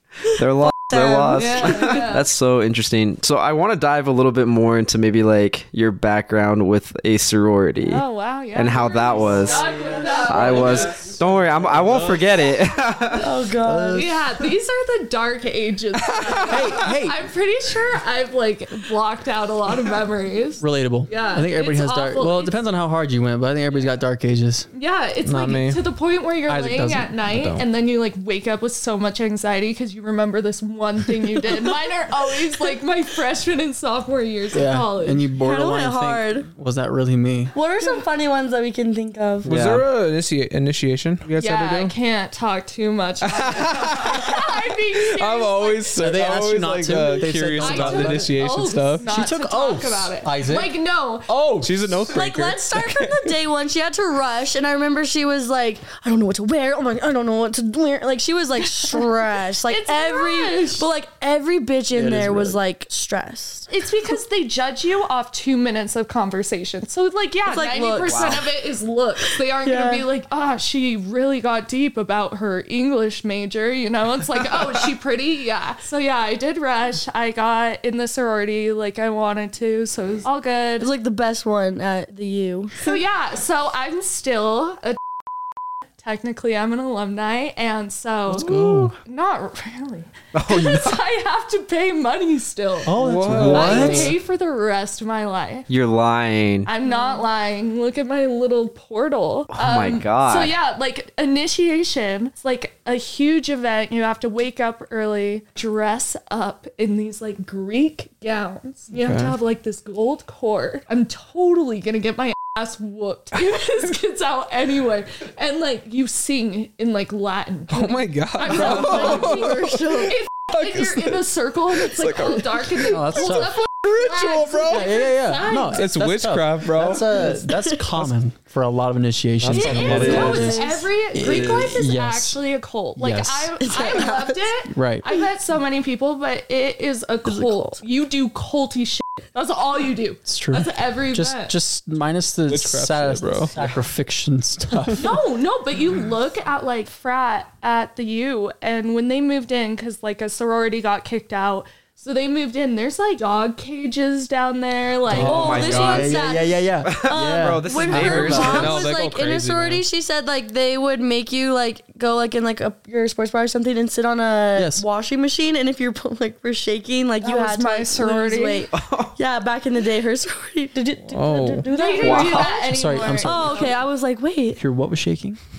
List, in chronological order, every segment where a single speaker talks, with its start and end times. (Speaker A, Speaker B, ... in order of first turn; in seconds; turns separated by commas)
Speaker A: 0.3-8.0, Speaker B: 0.6-2.0, Speaker C: 1.4-2.3, Speaker C: 7.8-11.1, Speaker A: 8.6-13.3, Speaker D: 11.8-12.2, Speaker B: 13.1-14.1, Speaker D: 13.6-14.2, Speaker C: 13.9-22.6, Speaker D: 16.4-17.2, Speaker D: 20.6-24.7, Speaker C: 24.7-35.3, Speaker E: 25.2-25.8, Speaker D: 26.5-27.1, Speaker E: 27.2-27.7, Speaker D: 34.5-37.5, Speaker B: 35.4-36.5, Speaker B: 37.5-39.5, Speaker A: 39.5-39.9, Speaker E: 39.5-41.9, Speaker C: 41.4-46.0, Speaker E: 43.2-49.0, Speaker D: 46.0-48.4, Speaker C: 47.6-51.3, Speaker D: 49.0-50.7, Speaker D: 51.3-52.0, Speaker E: 51.6-53.4, Speaker B: 52.1-63.7, Speaker C: 59.7-60.9, Speaker D: 61.9-62.6, Speaker C: 63.7-80.9, Speaker B: 67.5-68.4, Speaker A: 68.0-68.4, Speaker B: 69.3-70.0, Speaker B: 80.8-82.9, Speaker C: 82.8-85.0, Speaker C: 86.0-93.0, Speaker D: 88.3-89.0, Speaker A: 90.3-91.0, Speaker D: 92.9-94.2, Speaker E: 93.0-94.2, Speaker C: 93.5-95.7, Speaker A: 93.7-94.0, Speaker A: 95.7-96.7, Speaker C: 96.7-125.9, Speaker A: 99.5-100.5, Speaker E: 108.9-109.3, Speaker E: 117.7-121.1, Speaker B: 118.8-120.1, Speaker E: 121.9-122.9, Speaker D: 122.8-123.7, Speaker E: 123.9-124.7, Speaker D: 124.6-132.4, Speaker E: 125.7-127.2, Speaker B: 127.5-127.8, Speaker E: 129.4-130.6, Speaker C: 129.5-141.6, Speaker A: 129.7-130.6, Speaker B: 130.0-130.8, Speaker A: 131.2-131.7, Speaker D: 133.0-133.6, Speaker B: 133.6-134.4, Speaker D: 134.7-135.1, Speaker B: 137.3-137.8, Speaker D: 140.3-145.2, Speaker E: 142.5-143.6, Speaker C: 144.9-156.4, Speaker A: 155.1-156.3, Speaker D: 155.1-158.7, Speaker B: 155.2-172.5, Speaker A: 156.8-158.8, Speaker E: 157.9-159.8, Speaker D: 164.6-164.8, Speaker C: 167.2-168.7, Speaker A: 168.7-169.1, Speaker E: 171.1-171.7, Speaker C: 171.7-173.8, Speaker A: 172.0-172.6, Speaker D: 172.4-173.7, Speaker B: 173.2-174.6, Speaker D: 174.6-175.4